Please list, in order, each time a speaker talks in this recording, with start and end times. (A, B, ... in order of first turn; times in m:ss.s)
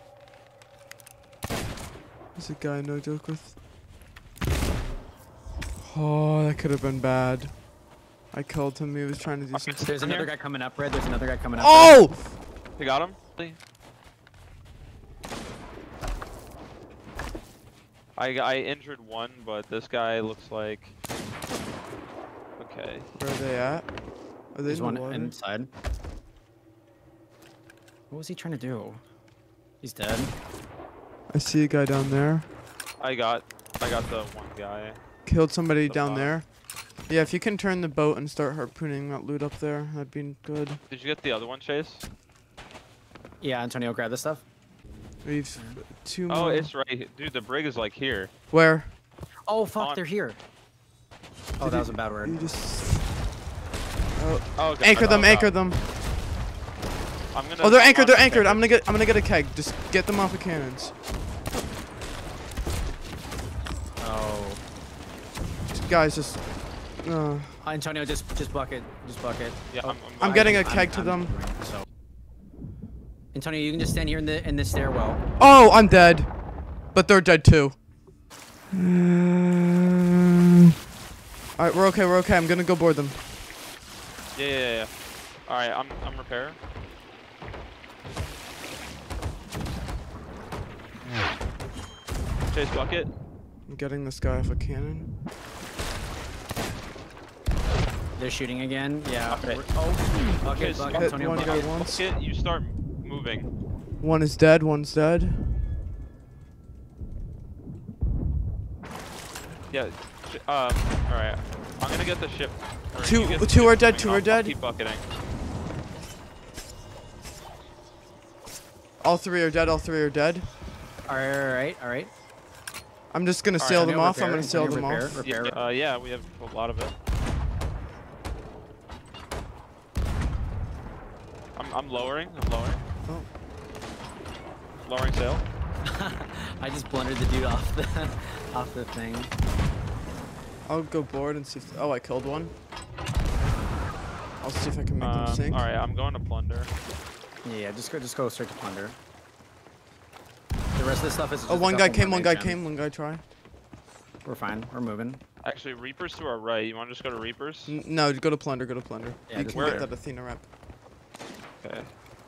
0:02.4-0:03.6 A
0:05.8-0:07.6 A
0:08.3-0:09.9 A
0:09.5-0:10.3 B
0:09.8-0:12.0 C
0:11.6-0:12.4 A
0:12.8-0:13.6 B
0:18.2-0:20.9 B
0:22.6-0:23.1 B
0:23.2-0:23.9 A
0:24.5-0:25.4 A
0:24.7-0:25.7 C
0:28.1-0:29.0 C
0:29.8-0:30.4 C
0:31.3-0:32.5 A
0:33.0-0:35.0 B
0:35.3-0:36.5 A
0:35.9-0:36.3 B
0:37.1-0:40.8 A
0:40.9-0:42.0 B
0:43.4-0:44.4 C
0:45.2-0:46.7 A
0:45.6-0:45.8 C
0:46.3-0:48.3 B
0:48.5-0:48.9 A
0:49.5-0:50.4 C
0:49.8-0:50.0 B
0:51.6-0:52.6 C
0:51.6-0:53.1 A
0:54.2-0:55.8 A
0:54.6-0:55.5 B
0:57.3-0:58.7 B
0:57.6-1:00.9 A
1:04.0-1:04.6 C
1:05.7-1:06.5 A
1:07.0-1:07.6 A
1:07.6-1:11.9 C
1:09.7-1:10.5 B
1:10.2-1:11.4 A
1:13.3-1:15.3 C
1:15.4-1:16.4 A
1:16.9-1:17.8 A
1:18.7-1:20.1 A
1:21.6-1:23.3 A
1:24.3-1:24.9 B
1:25.4-1:26.6 B
1:32.5-1:33.1 B
1:33.7-1:35.1 A
1:38.2-1:41.7 C
1:39.3-1:43.5 B
1:40.9-1:42.0 A
1:44.0-1:45.5 A
1:49.7-1:55.1 B
1:53.0-1:54.6 A
1:59.0-2:00.5 A
2:01.1-2:02.1 C
2:03.1-2:05.2 A
2:03.6-2:05.6 C
2:05.2-2:06.9 B
2:11.6-2:12.8 B
2:14.8-2:15.4 B
2:15.8-2:19.3 C
2:20.7-2:22.5 A
2:24.4-2:25.6 A
2:25.0-2:26.7 B
2:27.4-2:29.0 C
2:30.8-2:32.6 C
2:31.5-2:33.2 A
2:34.2-2:35.2 C
2:35.4-2:37.8 B
2:37.7-2:40.4 A
2:39.3-2:39.9 C
2:39.4-2:39.8 B
2:41.6-2:41.9 B